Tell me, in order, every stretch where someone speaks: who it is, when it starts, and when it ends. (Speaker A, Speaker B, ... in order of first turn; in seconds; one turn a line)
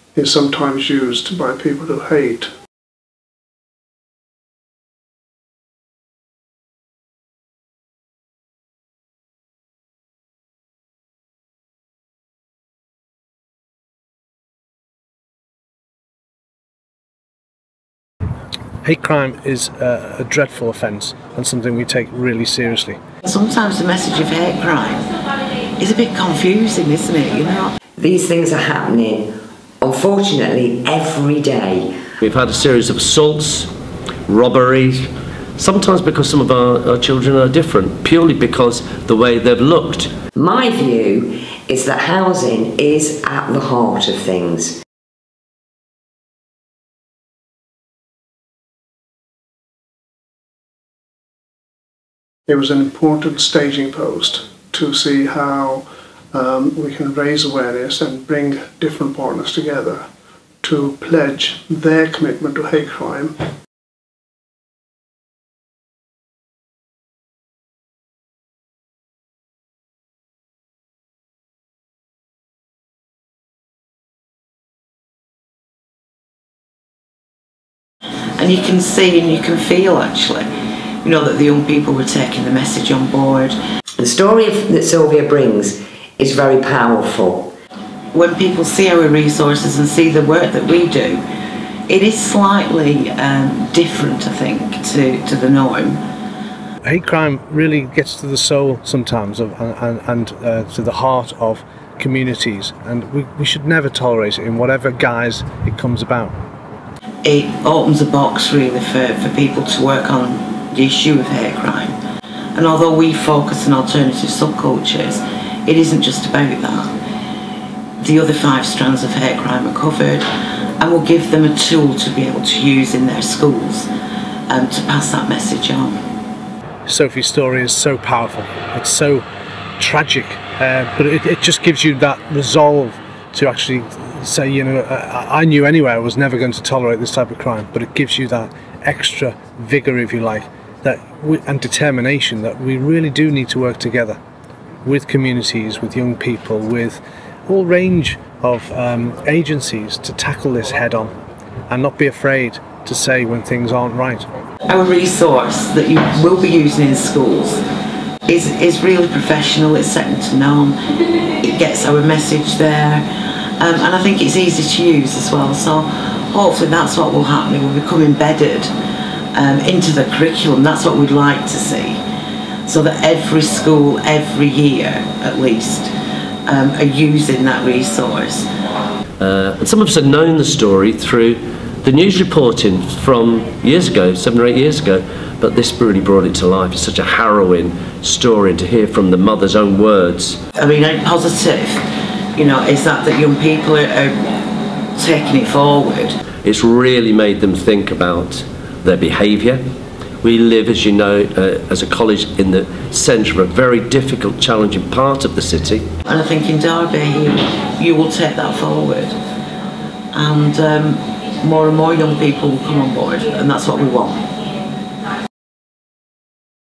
Speaker A: 0.1-2.5
Speaker B: 18.8-23.0
Speaker C: 23.2-25.1
Speaker C: 25.8-27.7
Speaker D: 28.0-32.0
Speaker E: 32.2-33.7
Speaker E: 34.3-40.1
Speaker D: 40.4-44.8
Speaker A: 52.5-60.1
Speaker A: 60.6-63.4
Speaker C: 78.4-80.5
Speaker C: 81.0-83.6
Speaker D: 84.0-87.5
Speaker C: 88.1-91.2
Speaker C: 91.9-96.0
Speaker B: 96.9-106.3
Speaker C: 107.2-112.0
Speaker C: 112.5-116.9
Speaker C: 118.0-120.3
Speaker C: 120.8-123.9
Speaker C: 124.5-126.0
Speaker B: 126.9-129.2
Speaker B: 129.8-144.2
Speaker B: 144.8-151.1
Speaker B: 151.7-154.3
Speaker C: 154.7-157.6
Speaker C: 158.3-163.1
Speaker C: 163.6-168.7
Speaker C: 169.3-172.0
Speaker C: 172.7-175.9
Speaker C: 176.5-178.5
Speaker E: 179.2-190.4
Speaker C: 190.6-194.3
Speaker C: 194.9-196.2
Speaker E: 196.4-199.6
Speaker E: 200.2-205.8
Speaker C: 206.1-209.2
Speaker C: 210.1-214.3